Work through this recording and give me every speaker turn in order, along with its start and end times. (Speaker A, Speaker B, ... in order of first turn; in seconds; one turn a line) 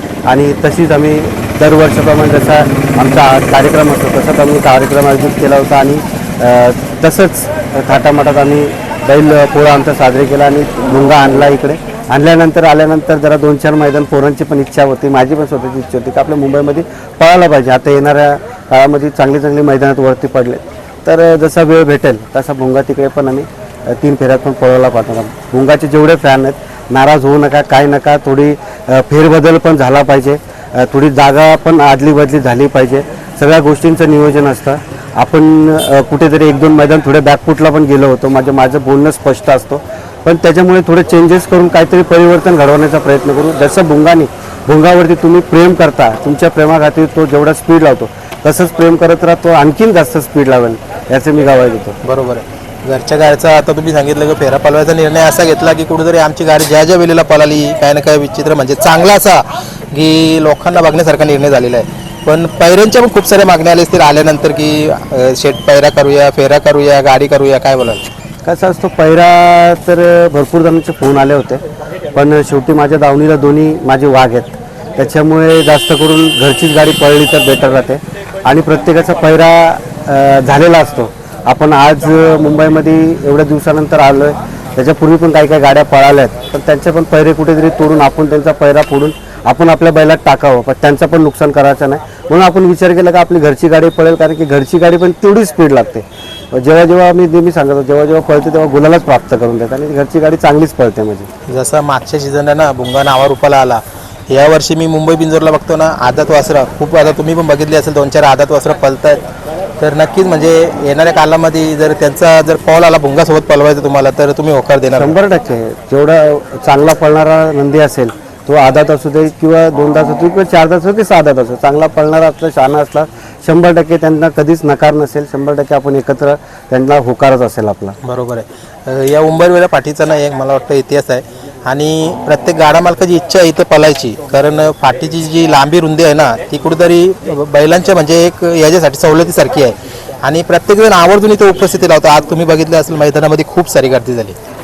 Speaker A: 0.3-52.0
Speaker B: 52.0-68.0
Speaker A: 68.5-71.6
Speaker A: 72.1-101.3
Speaker B: 101.5-109.2
Speaker B: 109.8-115.2
Speaker A: 115.0-128.0
Speaker B: 128.0-144.4